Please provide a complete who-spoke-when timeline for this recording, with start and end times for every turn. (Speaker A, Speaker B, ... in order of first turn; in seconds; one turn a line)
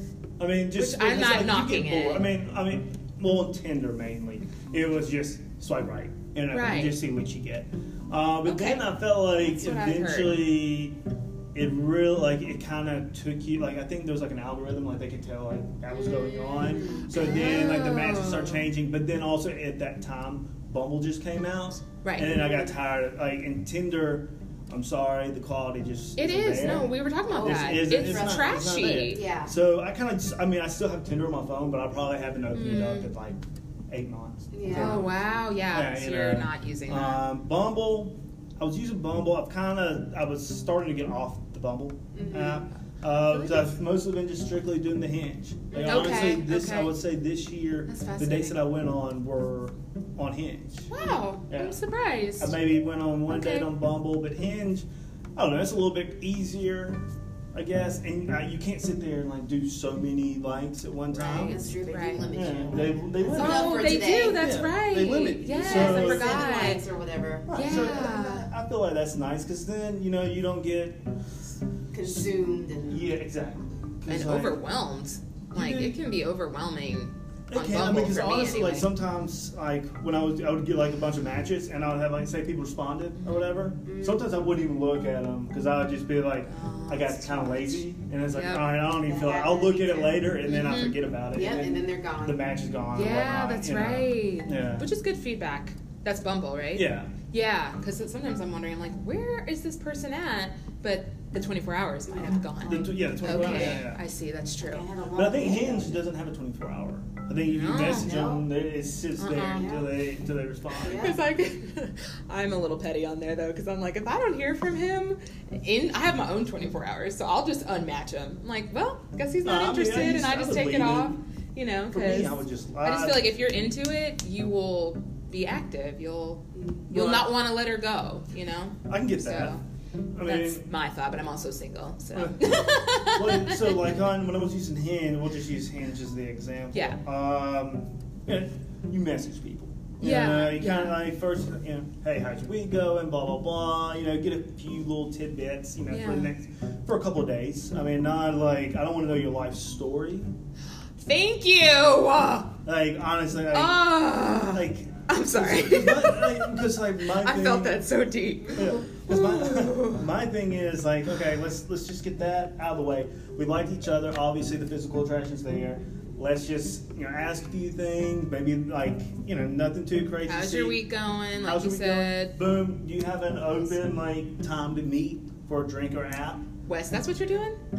Speaker A: 0.4-11.0
Speaker B: 0.8-2.3
Speaker B: 6.5-7.0
Speaker B: 8.5-10.4
Speaker A: 11.5-35.1
Speaker C: 15.9-17.4
Speaker B: 17.1-18.7
Speaker B: 22.0-22.4
Speaker B: 26.2-29.2
Speaker C: 27.3-29.5
Speaker B: 32.5-33.1
Speaker C: 34.5-35.1
Speaker B: 34.7-37.2
Speaker A: 35.7-50.9
Speaker C: 42.1-42.6
Speaker B: 43.2-43.7
Speaker C: 45.7-46.3
Speaker B: 45.9-46.9
Speaker B: 47.9-48.6
Speaker B: 50.9-52.5
Speaker A: 51.5-51.8
Speaker A: 52.4-54.9
Speaker B: 53.3-53.7
Speaker A: 55.4-57.0
Speaker A: 57.5-61.7
Speaker C: 61.1-64.5
Speaker B: 61.2-62.2
Speaker A: 62.3-66.6
Speaker B: 63.4-66.8
Speaker C: 65.6-67.9
Speaker A: 67.5-71.0
Speaker B: 67.5-68.5
Speaker C: 71.9-73.1
Speaker A: 72.9-74.6
Speaker B: 74.1-78.9
Speaker A: 75.5-76.0
Speaker A: 77.5-94.9
Speaker B: 83.2-83.4
Speaker C: 83.8-84.3
Speaker B: 86.5-88.7
Speaker C: 88.9-90.3
Speaker B: 90.5-91.0
Speaker C: 91.3-92.4
Speaker B: 92.9-104.9
Speaker A: 96.8-97.1
Speaker C: 102.1-103.8
Speaker A: 102.6-104.0
Speaker C: 104.6-106.0
Speaker A: 105.1-111.2
Speaker B: 107.5-108.1
Speaker C: 107.8-108.5
Speaker B: 109.2-109.8
Speaker C: 109.5-109.9
Speaker C: 110.8-111.2
Speaker B: 110.8-129.6
Speaker A: 119.4-121.2
Speaker A: 121.9-123.3
Speaker C: 126.5-126.8
Speaker A: 126.9-127.3
Speaker A: 128.9-129.6
Speaker A: 130.2-130.6
Speaker B: 130.2-133.8
Speaker A: 132.1-150.3
Speaker B: 136.7-137.0
Speaker B: 140.0-141.0
Speaker B: 145.9-146.3
Speaker B: 151.0-152.6
Speaker A: 152.7-157.8
Speaker B: 153.5-160.1
Speaker A: 158.6-170.8
Speaker B: 170.3-172.4
Speaker A: 171.4-176.5
Speaker B: 176.7-177.6